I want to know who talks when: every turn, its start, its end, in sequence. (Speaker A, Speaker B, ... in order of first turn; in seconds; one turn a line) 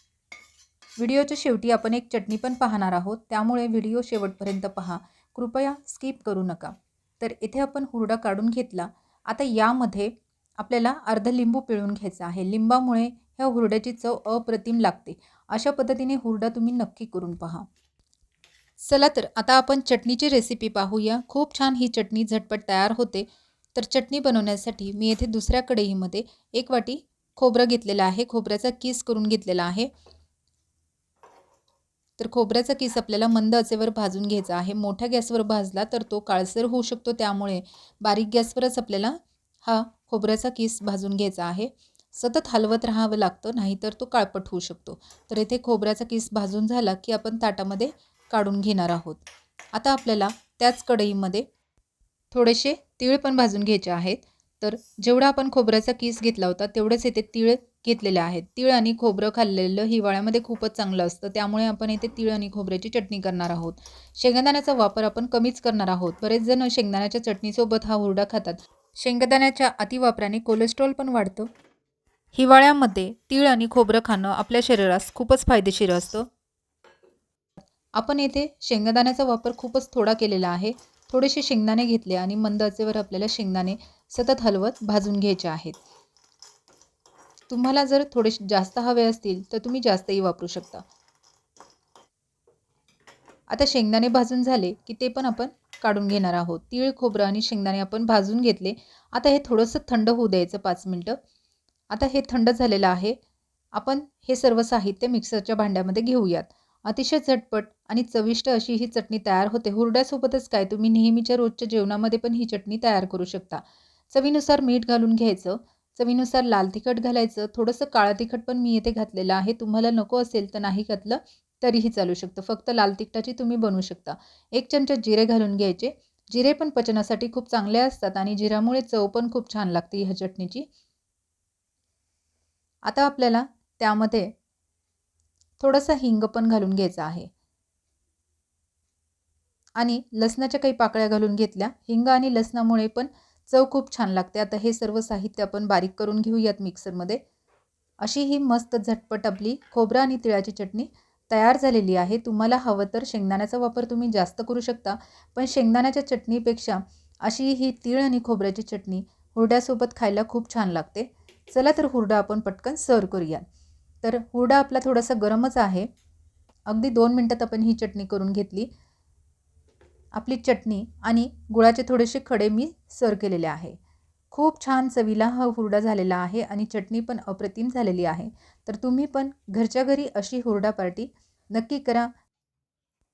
Speaker A: 1.0-17.7
Speaker A: 18.8-29.9
Speaker A: 32.2-51.5
Speaker A: 52.3-71.5
Speaker A: 72.3-76.3
Speaker A: 78.0-85.8
Speaker A: 87.5-90.8
Speaker A: 93.5-101.2
Speaker A: 101.9-103.2
Speaker A: 103.7-130.7
Speaker A: 132.9-134.3
Speaker A: 135.6-137.3
Speaker A: 139.8-147.2
Speaker A: 148.0-163.4
Speaker A: 164.0-165.9
Speaker A: 166.7-168.7
Speaker A: 170.1-173.8
Speaker A: 174.3-182.1